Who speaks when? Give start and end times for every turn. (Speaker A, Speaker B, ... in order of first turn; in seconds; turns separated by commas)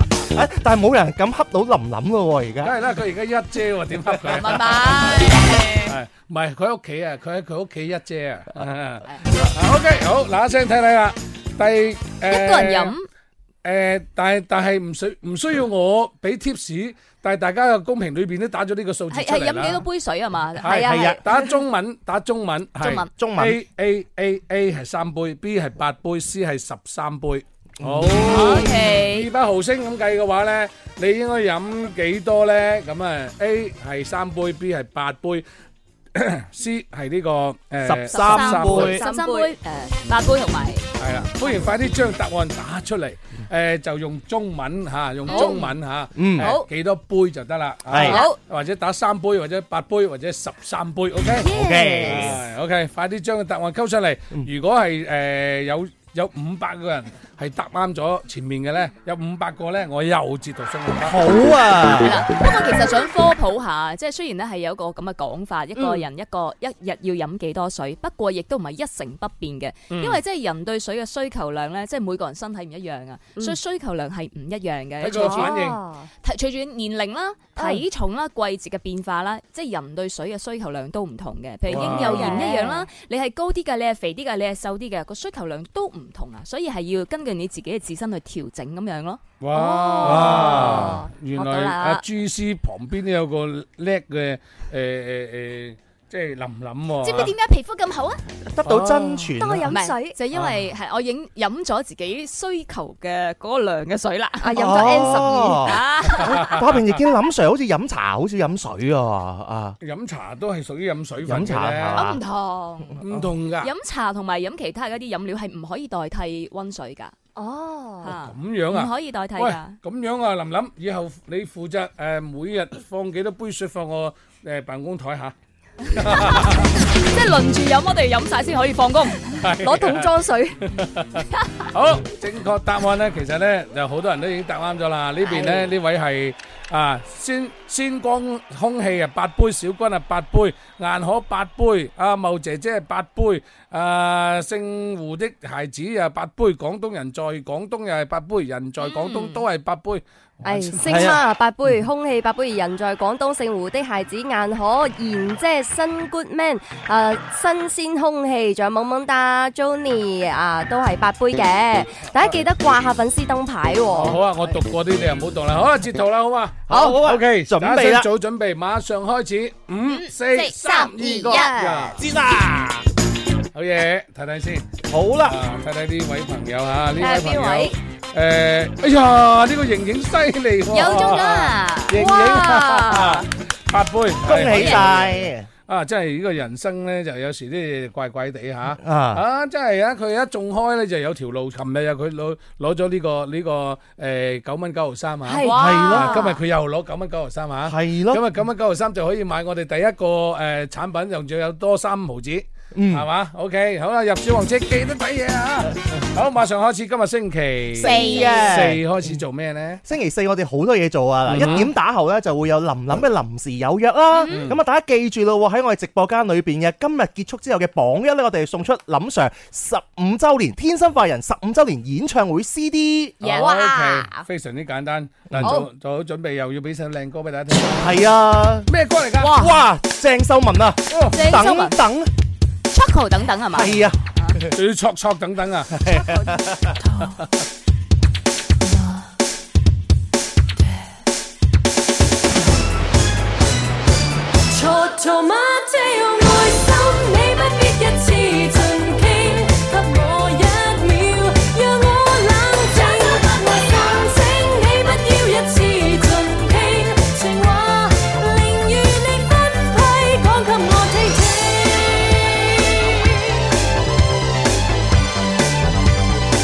Speaker A: 0.3-2.7, Speaker B: 2.6-5.3, Speaker C: 4.2-5.9, Speaker B: 5.8-12.9, Speaker C: 12.3-13.1, Speaker B: 13.6-19.8, Speaker C: 19.1-21.1, Speaker B: 20.6-35.4, Speaker D: 20.7-21.4, Speaker A: 20.7-21.2, Speaker C: 22.8-23.1, Speaker A: 23.2-23.6, Speaker A: 27.8-28.7, Speaker C: 28.3-29.3, Speaker B: 36.1-39.0, Speaker A: 37.8-39.0, Speaker C: 38.1-40.9, Speaker D: 38.8-39.5, Speaker B: 41.0-51.5, Speaker C: 45.3-45.6, Speaker D: 45.3-45.7, Speaker A: 46.1-46.5, Speaker D: 46.4-46.6, Speaker A: 47.9-48.2, Speaker D: 48.0-48.4, Speaker D: 51.4-52.3, Speaker A: 51.5-52.4, Speaker B: 52.0-61.2, Speaker A: 61.0-62.2, Speaker C: 62.0-75.6, Speaker D: 65.8-66.0, Speaker B: 69.9-70.2, Speaker B: 75.0-75.8, Speaker D: 75.1-76.1, Speaker C: 76.2-89.2, Speaker D: 77.6-77.8, Speaker B: 81.7-82.4, Speaker D: 81.7-82.9, Speaker B: 89.4-97.3, Speaker D: 89.5-91.1, Speaker A: 90.0-91.0, Speaker C: 90.2-90.7, Speaker C: 91.3-92.0, Speaker C: 97.0-98.2, Speaker A: 98.5-99.7, Speaker B: 98.6-99.3, Speaker D: 99.4-100.2, Speaker C: 99.7-104.8, Speaker D: 104.4-105.8, Speaker A: 104.5-109.8, Speaker C: 105.6-106.6, Speaker B: 106.4-106.9, Speaker B: 109.8-112.1, Speaker A: 111.2-112.2, Speaker C: 111.9-113.0, Speaker B: 113.0-113.7, Speaker C: 113.6-117.1, Speaker D: 117.3-118.1, Speaker C: 118.0-119.8, Speaker B: 118.2-125.3, Speaker B: 125.9-126.7, Speaker C: 125.9-129.3, Speaker B: 129.4-130.1, Speaker D: 129.6-130.6, Speaker B: 130.7-151.2, Speaker D: 135.2-135.6, Speaker C: 148.8-149.4, Speaker D: 150.4-164.2, Speaker A: 150.8-151.2, Speaker B: 163.9-172.0, Speaker A: 166.7-168.1, Speaker C: 169.8-170.5, Speaker D: 170.3-171.9, Speaker C: 171.2-171.9, Speaker A: 171.9-172.8, Speaker B: 173.5-174.7, Speaker A: 174.9-175.4, Speaker B: 175.2-209.8, Speaker D: 177.0-177.7, Speaker C: 180.7-182.1, Speaker D: 181.9-183.2, Speaker A: 184.2-185.5, Speaker A: 188.8-189.2, Speaker D: 195.2-196.1, Speaker C: 195.4-196.4, Speaker A: 195.5-196.2, Speaker A: 197.7-198.2, Speaker A: 202.7-203.1, Speaker A: 207.8-208.8, Speaker C: 207.8-208.4, Speaker D: 207.8-208.3, Speaker A: 209.8-223.2, Speaker B: 211.3-211.7, Speaker C: 214.2-214.5, Speaker B: 223.2-228.0, Speaker D: 223.2-224.2, Speaker A: 225.3-225.6, Speaker A: 227.7-228.7, Speaker B: 228.7-229.5, Speaker A: 229.2-232.1, Speaker C: 229.2-229.5, Speaker C: 231.1-231.8, Speaker C: 232.7-234.4, Speaker A: 233.5-234.0, Speaker B: 234.5-236.0, Speaker E: 244.5-263.4